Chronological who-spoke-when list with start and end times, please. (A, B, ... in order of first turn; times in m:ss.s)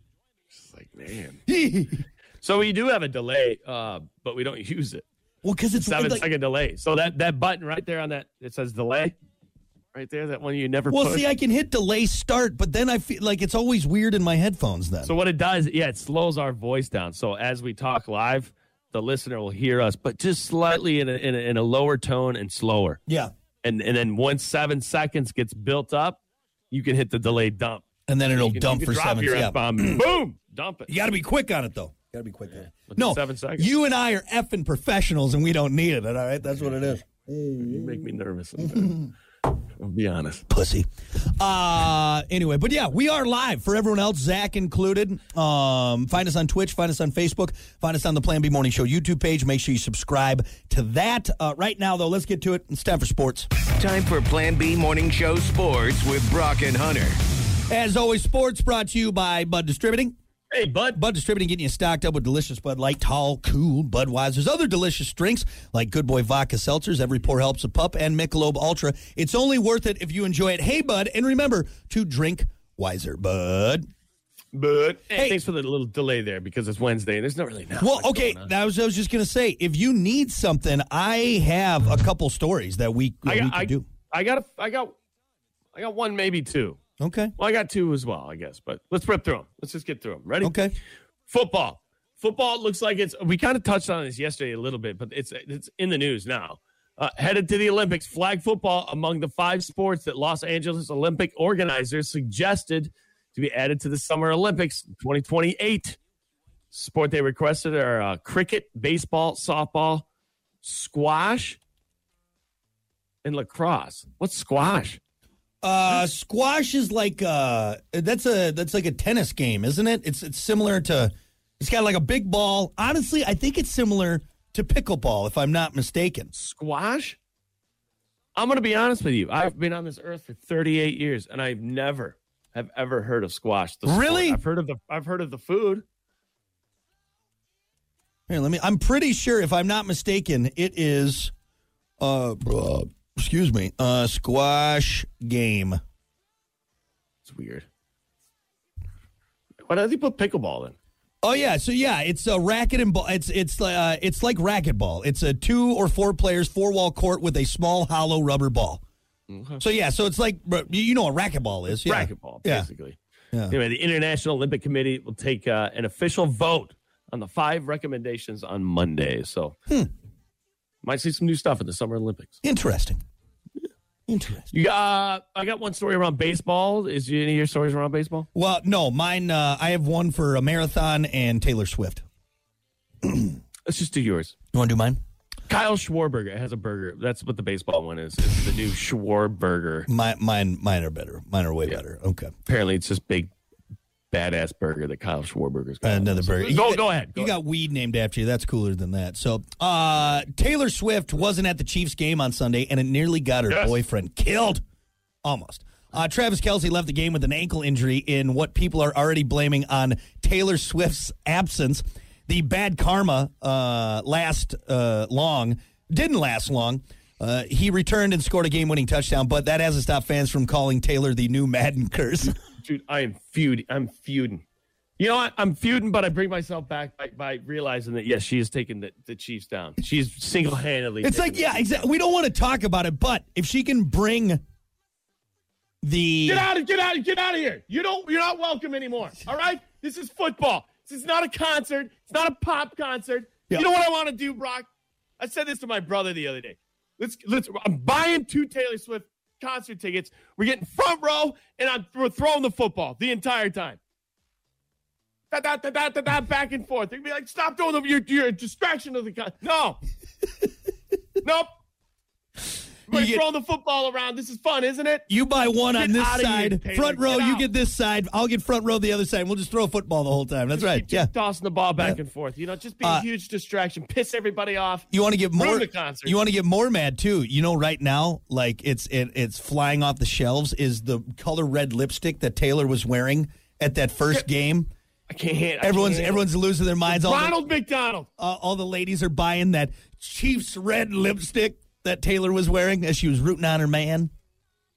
0:00.5-0:01.4 A
0:01.5-0:02.0 B
0:02.4-0:05.0 A
0:05.4-0:06.2 B
0:05.8-0:09.1 A
0:09.9-0:11.3 A
0:10.9-0:15.1 B
0:15.0-0:23.0 A
0:23.1-0:23.3 B
0:23.6-0:26.2 A
0:26.7-0:30.9 A
0:28.1-0:30.0 B
0:30.9-0:38.0 B
0:32.6-0:33.8 A
0:37.6-0:39.1 A
0:39.8-0:40.4 A
0:40.5-0:53.5 B
0:53.8-0:57.2 C
0:57.7-1:00.2 B
1:00.5-1:01.0 A
1:00.9-1:13.9 B
1:14.5-1:18.5 A
1:17.8-1:23.8 B
1:23.2-1:25.0 A
1:25.7-1:26.8 A
1:27.0-1:27.3 B
1:27.4-1:30.6 A
1:30.4-1:30.7 B
1:31.3-1:46.0 A
1:46.7-1:50.0 A
1:50.6-1:51.6 A
1:53.2-1:55.0 A
1:55.6-2:06.3 B
2:06.3-2:07.2 A
2:08.4-2:15.8 A
2:13.8-2:14.4 B
2:18.3-2:21.3 B
2:22.0-2:25.8 B
2:27.2-2:27.7 A
2:29.6-2:30.8 A
2:31.2-2:38.8 B
2:39.3-2:39.6 A
2:39.6-2:42.7 B
2:41.7-2:43.0 A
2:43.5-2:49.6 A
2:50.8-2:52.4 A
2:52.4-2:53.0 B
2:54.1-2:54.5 B
2:54.5-2:58.3 A
2:58.3-3:02.0 B
3:03.0-3:03.3 B
3:03.6-3:04.3 A
3:04.5-3:05.0 B
3:05.5-3:09.9 A
3:09.9-3:12.3 B
3:12.5-3:13.3 A
3:14.1-3:17.4 A
3:15.8-3:24.6 B
3:23.5-3:23.8 A
3:25.2-3:42.4 B
3:42.4-3:44.4 A
3:45.0-3:51.8 A
3:51.0-3:54.4 B
3:55.8-3:56.5 B
3:56.2-4:04.7 A
4:05.2-4:13.8 A
4:15.3-4:19.8 A
4:21.2-4:21.5 A
4:22.9-4:25.0 A
4:22.9-4:23.2 B
4:25.1-4:31.1 B
4:25.7-4:27.5 A
4:30.5-4:36.2 A
4:34.9-4:44.7 B
4:45.1-4:46.3 A
4:45.6-4:47.4 B
4:46.8-4:48.1 A
4:48.2-4:54.1 B